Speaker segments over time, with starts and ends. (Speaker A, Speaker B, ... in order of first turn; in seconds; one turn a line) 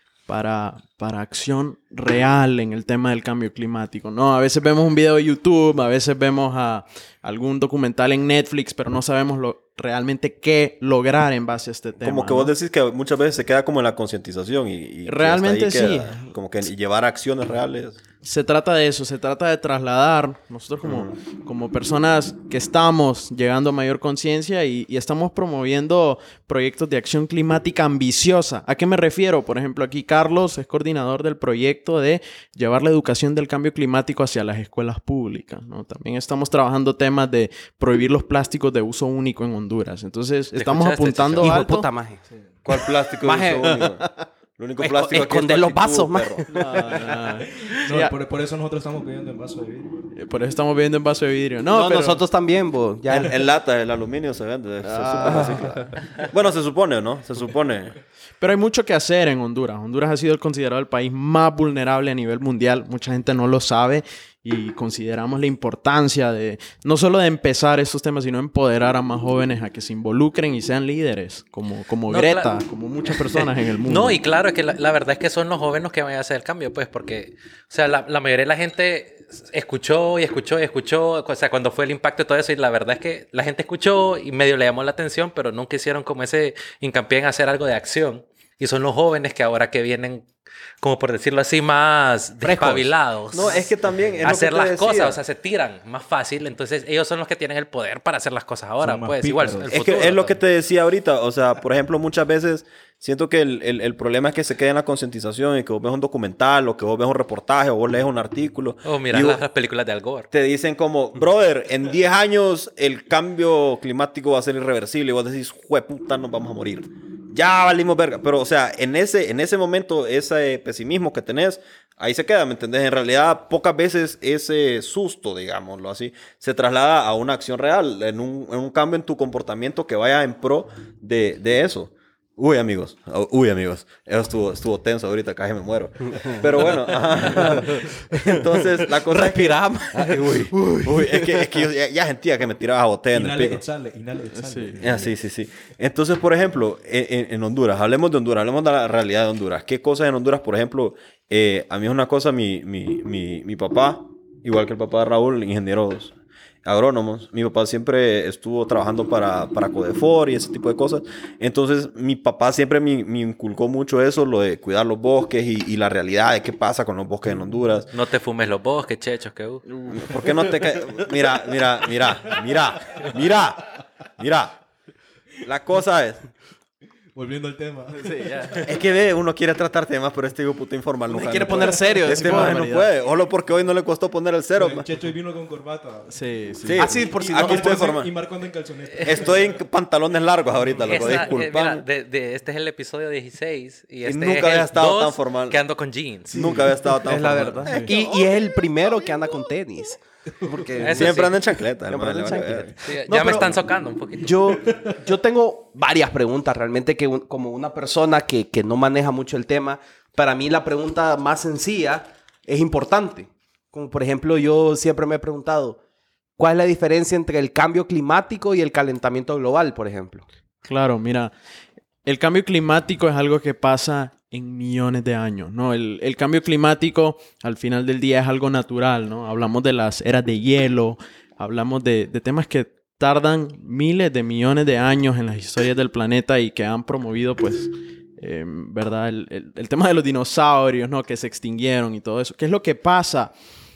Speaker A: 0.3-12.5
Speaker B: 12.0-18.0
Speaker A: 15.1-16.3
Speaker A: 18.2-41.9
Speaker B: 20.8-21.2
Speaker C: 40.5-41.6
Speaker D: 41.4-42.2
Speaker B: 42.6-46.5
Speaker D: 43.2-43.8
Speaker A: 43.8-44.2
Speaker D: 44.8-46.9
Speaker A: 46.5-48.1
Speaker E: 46.9-50.1
Speaker A: 50.1-52.2
Speaker D: 51.7-53.3
Speaker B: 53.1-58.0
Speaker A: 54.8-55.9
Speaker A: 58.4-74.2
Speaker C: 72.1-72.5
Speaker C: 73.1-90.3
Speaker C: 90.8-93.7
Speaker D: 92.4-92.9
Speaker B: 93.3-95.2
Speaker C: 94.2-100.4
Speaker E: 98.8-99.7
Speaker B: 99.7-109.4
Speaker C: 108.8-110.3
Speaker B: 110.3-143.6
Speaker D: 139.1-140.9
Speaker E: 143.1-145.1
Speaker A: 144.3-144.8
Speaker B: 144.8-156.2
Speaker B: 156.7-167.9
Speaker C: 167.9-169.6
Speaker A: 169.7-170.6
Speaker B: 169.9-173.7
Speaker B: 174.2-174.6
Speaker B: 175.4-176.2
Speaker E: 177.1-178.7
Speaker A: 178.0-178.6
Speaker B: 178.6-184.9
Speaker A: 181.1-182.9
Speaker E: 184.5-189.6
Speaker A: 186.1-186.9
Speaker B: 186.6-188.1
Speaker D: 186.8-187.9
Speaker B: 189.0-191.8
Speaker C: 190.8-196.3
Speaker B: 194.1-195.6
Speaker D: 196.3-201.3
Speaker B: 196.3-199.4
Speaker C: 200.8-201.4
Speaker B: 200.8-202.8
Speaker D: 201.9-203.6
Speaker C: 202.8-204.6
Speaker D: 204.2-215.8
Speaker E: 204.7-205.0
Speaker D: 216.4-220.2
Speaker A: 220.7-221.3
Speaker A: 222.1-243.3